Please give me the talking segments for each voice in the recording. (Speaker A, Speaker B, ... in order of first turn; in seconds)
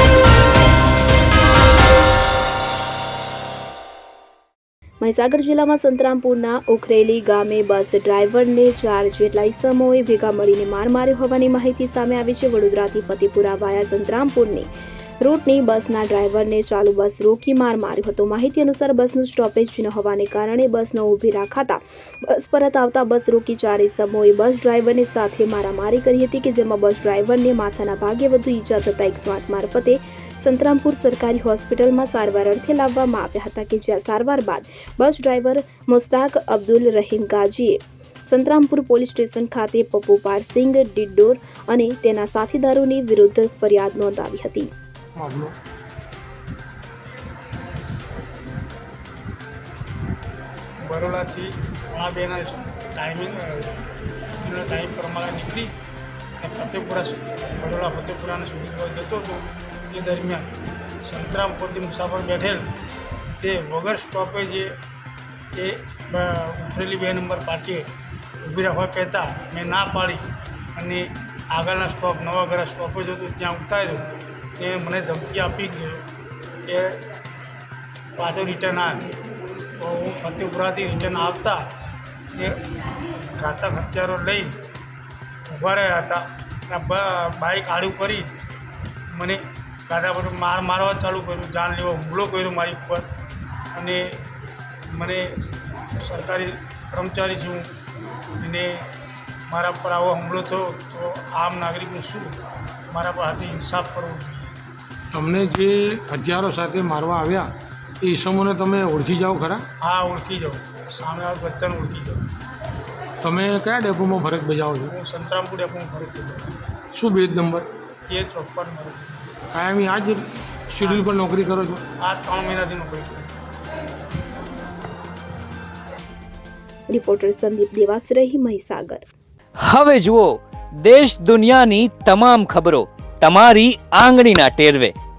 Speaker A: 5.0-14.7, 15.2-44.7, 126.9-129.1
Speaker B: 45.2-45.5, 105.1-107.5, 108.0-109.7, 113.2-115.0, 116.9-117.7, 119.5-121.8
Speaker C: 50.9-53.8, 54.4-55.7, 56.4-60.5, 61.0-62.7, 63.4-64.8, 65.5-67.9, 68.4-76.0, 76.6-77.0, 78.2-79.1, 79.8-81.7, 82.3-82.8, 83.4-84.6, 85.5-88.3, 89.1-93.1, 93.7-94.2, 94.9-95.3, 95.9-97.7, 98.4-98.9, 99.5-102.4, 102.9-104.5, 109.8-112.3, 114.9-116.6, 118.1-119.3, 120.8-121.1, 122.0-123.3
Speaker D: 129.6-134.9